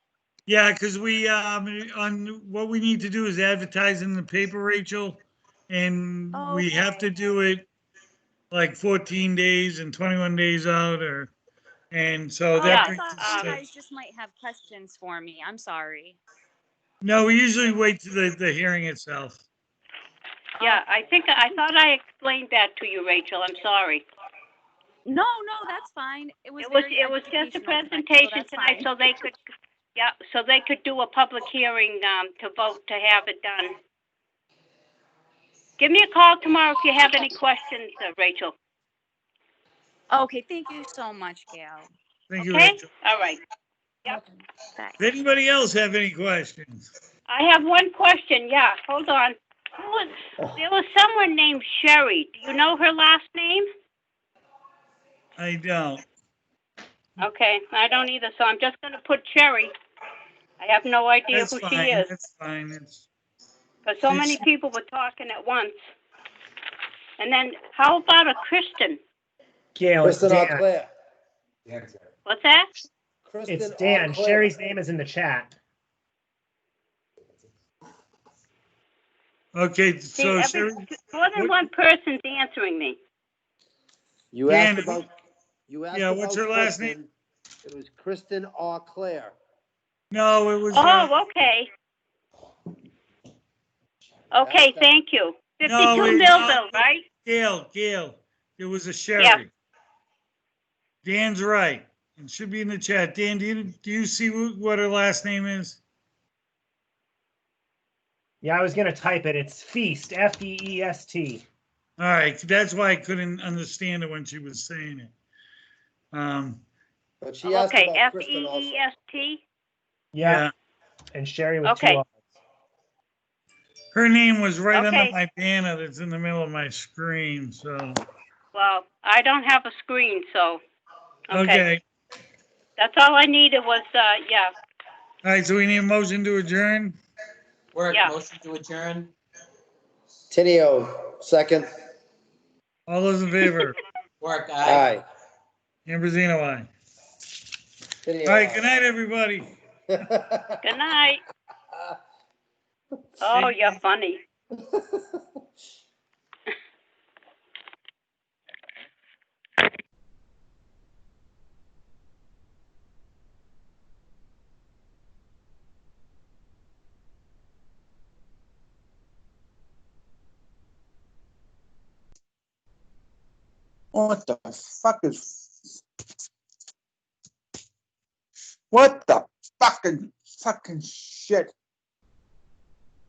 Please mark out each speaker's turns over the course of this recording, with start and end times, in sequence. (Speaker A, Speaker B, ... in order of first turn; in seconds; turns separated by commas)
Speaker A: 0.5-7.7, Speaker B: 6.3-7.1, Speaker A: 8.5-11.3, Speaker A: 11.9-13.6, Speaker B: 12.6-16.2, Speaker C: 12.6-13.6, Speaker A: 17.0-19.4, Speaker C: 20.6-24.0, Speaker B: 20.6-21.6, Speaker B: 25.1-29.3, Speaker C: 26.6-29.4, Speaker C: 30.0-33.7, Speaker C: 35.8-38.5, Speaker B: 40.1-41.9, Speaker A: 42.3-42.8, Speaker C: 42.4-43.4, Speaker A: 45.0-46.9, Speaker C: 47.3-53.7, Speaker A: 55.4-56.0, Speaker C: 57.2-59.7, Speaker C: 60.6-62.1, Speaker A: 61.3-63.1, Speaker C: 63.9-65.7, Speaker A: 64.1-64.4, Speaker C: 67.2-69.0, Speaker D: 69.8-70.7, Speaker E: 70.0-70.9, Speaker C: 72.3-72.7, Speaker E: 73.2-74.5, Speaker D: 73.5-75.5, Speaker A: 79.5-80.8, Speaker C: 80.2-83.0, Speaker A: 81.3-81.6, Speaker E: 84.3-85.1, Speaker A: 84.5-85.0, Speaker E: 85.7-87.1, Speaker A: 85.9-87.0, Speaker E: 87.6-89.4, Speaker A: 90.1-91.1, Speaker C: 90.7-91.7, Speaker C: 94.3-97.0, Speaker E: 94.4-95.0, Speaker A: 95.6-99.5, Speaker A: 101.0-105.8, Speaker D: 108.4-111.4, Speaker A: 112.0-115.1, Speaker A: 116.1-116.6, Speaker E: 117.2-118.8, Speaker C: 117.5-119.4, Speaker D: 120.1-120.5, Speaker A: 120.2-120.5, Speaker D: 121.1-122.2, Speaker C: 121.7-122.0, Speaker A: 123.9-128.0, Speaker C: 124.7-125.2, Speaker C: 128.5-130.6, Speaker C: 131.3-131.7, Speaker A: 131.3-131.8, Speaker C: 132.8-134.5, Speaker A: 135.2-137.0, Speaker F: 137.7-139.1, Speaker E: 140.3-141.7, Speaker A: 142.9-143.8, Speaker F: 144.2-144.9, Speaker E: 144.6-145.0, Speaker A: 145.9-146.7, Speaker E: 148.1-148.7, Speaker A: 148.2-149.5, Speaker E: 149.9-150.6, Speaker C: 150.6-151.2, Speaker C: 153.2-154.2, Speaker A: 153.3-153.8, Speaker G: 173.9-175.4, Speaker G: 178.7-181.5